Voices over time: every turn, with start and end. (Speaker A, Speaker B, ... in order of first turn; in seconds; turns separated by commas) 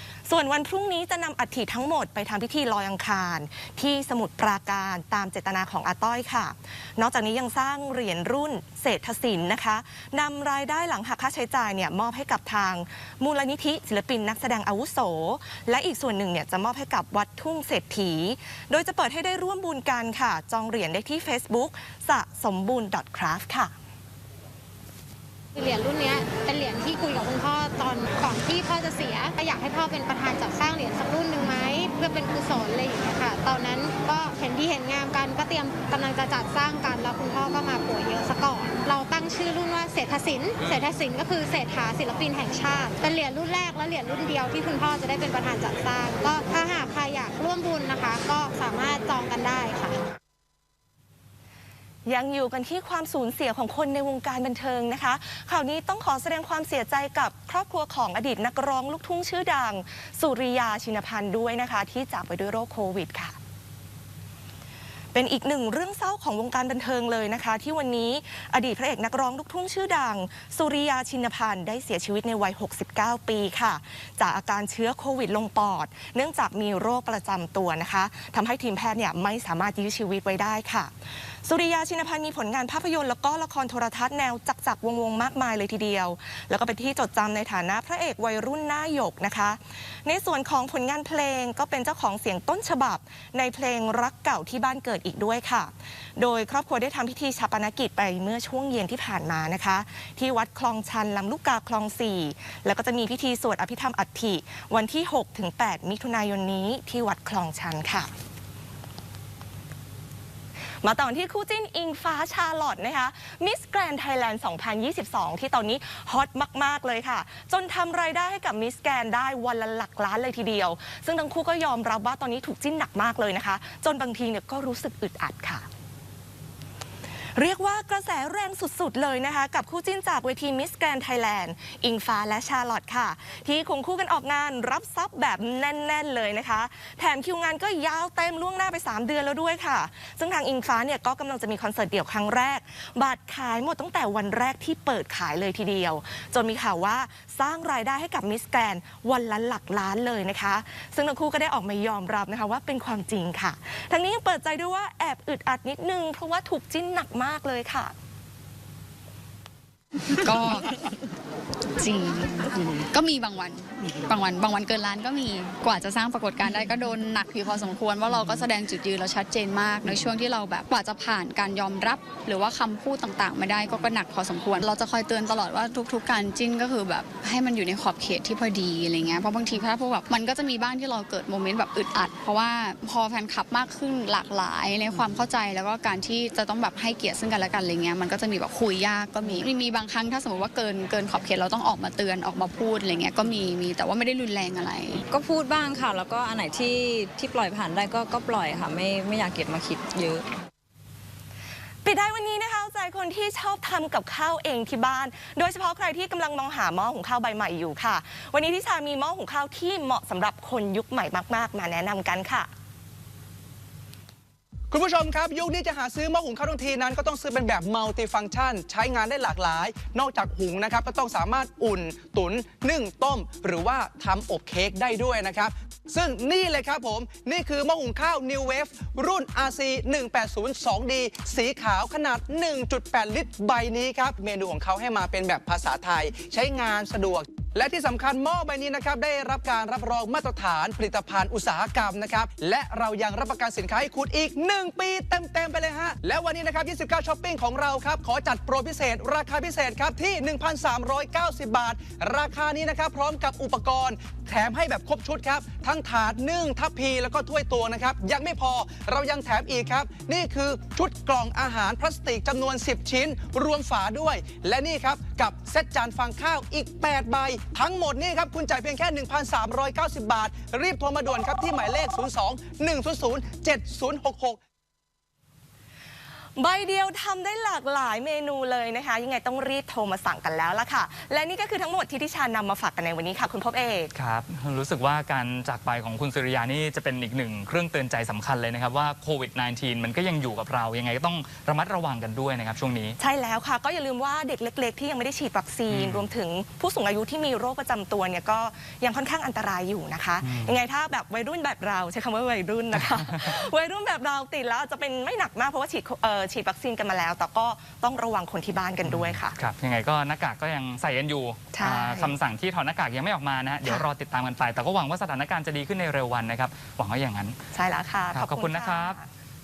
Speaker A: 0.3-23.7, Speaker B: 25.6-50.0, Speaker A: 52.1-63.4, Speaker A: 65.1-108.1, Speaker A: 110.8-125.7, Speaker A: 127.4-157.9, Speaker C: 160.2-160.8, Speaker C: 161.8-195.0, Speaker D: 195.1-200.3, Speaker A: 201.8-212.5, Speaker E: 214.7-274.4, Speaker A: 276.4-283.9, Speaker F: 283.9-293.0, Speaker A: 293.0-309.4, Speaker F: 295.7-296.1, Speaker F: 300.2-300.6, Speaker F: 308.9-317.4, Speaker A: 311.5-312.1, Speaker A: 317.5-319.1, Speaker F: 318.1-319.0